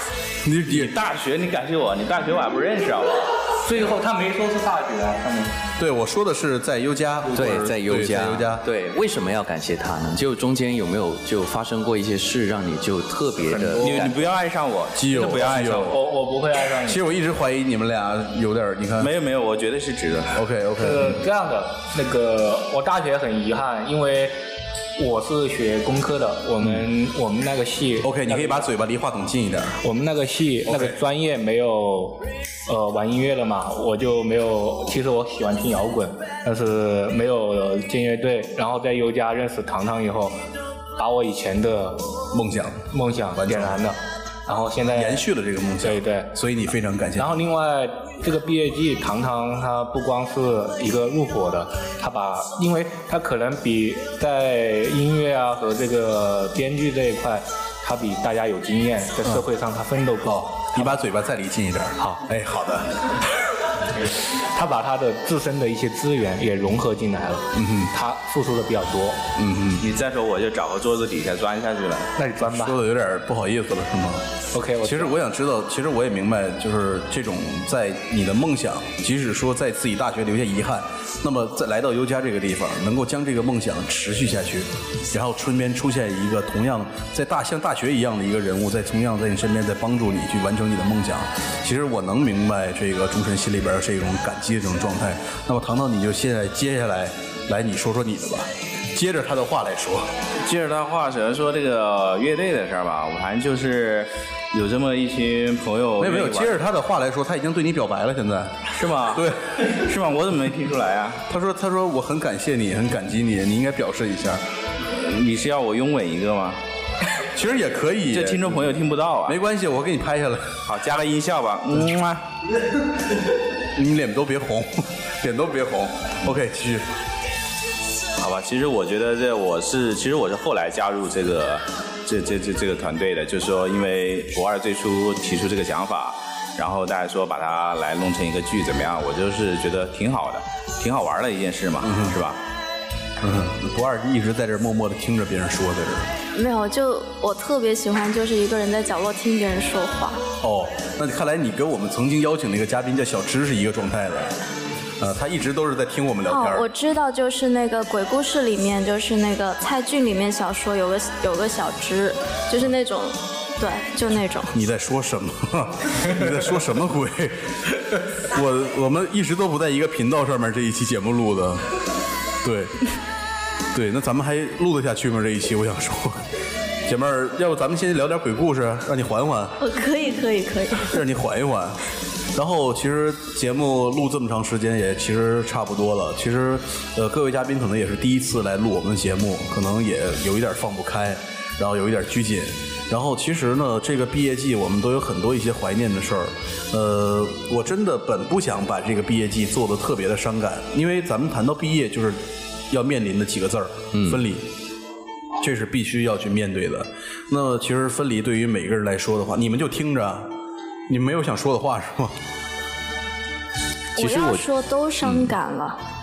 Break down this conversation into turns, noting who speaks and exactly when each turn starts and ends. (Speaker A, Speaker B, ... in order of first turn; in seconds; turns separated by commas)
Speaker A: 0.4-0.9, Speaker B: 0.7-3.4, Speaker C: 3.6-5.6, Speaker A: 5.8-8.6, Speaker D: 7.3-14.2, Speaker C: 13.4-14.1, Speaker B: 13.8-16.0, Speaker A: 14.9-15.9, Speaker C: 15.3-17.0, Speaker A: 16.8-19.1, Speaker B: 19.0-20.4, Speaker A: 20.3-21.2, Speaker C: 20.8-24.4, Speaker C: 25.0-28.6, Speaker A: 28.0-29.8, Speaker C: 29.8-40.4, Speaker A: 30.7-30.9, Speaker C: 41.0-42.0, Speaker A: 42.3-43.9, Speaker C: 42.9-45.2, Speaker A: 44.9-47.4, Speaker C: 45.8-46.3, Speaker C: 47.2-61.0, Speaker A: 60.2-63.2, Speaker C: 63.9-69.2, Speaker A: 67.5-67.9, Speaker A: 69.3-69.8, Speaker B: 69.8-72.1, Speaker C: 72.2-72.8, Speaker A: 72.4-74.3, Speaker C: 74.5-75.2, Speaker A: 74.8-100.1, Speaker B: 100.4-106.6, Speaker A: 106.0-109.5, Speaker B: 108.7-111.2, Speaker A: 111.3-114.4, Speaker B: 114.9-116.6, Speaker A: 117.3-120.6, Speaker B: 118.1-119.4, Speaker B: 120.7-122.3, Speaker A: 123.7-126.9, Speaker B: 128.2-142.4, Speaker A: 141.8-142.2, Speaker A: 143.2-146.1, Speaker E: 146.3-150.2, Speaker A: 150.4-154.3, Speaker A: 155.0-156.7, Speaker E: 156.3-164.5, Speaker A: 164.5-171.7, Speaker A: 172.4-172.8, Speaker A: 173.7-176.2, Speaker A: 176.8-179.6, Speaker E: 179.6-180.9, Speaker A: 180.8-181.8, Speaker A: 182.3-204.4, Speaker A: 205.4-210.3, Speaker A: 210.9-212.2, Speaker E: 213.9-215.8, Speaker D: 214.0-214.4, Speaker A: 215.0-215.3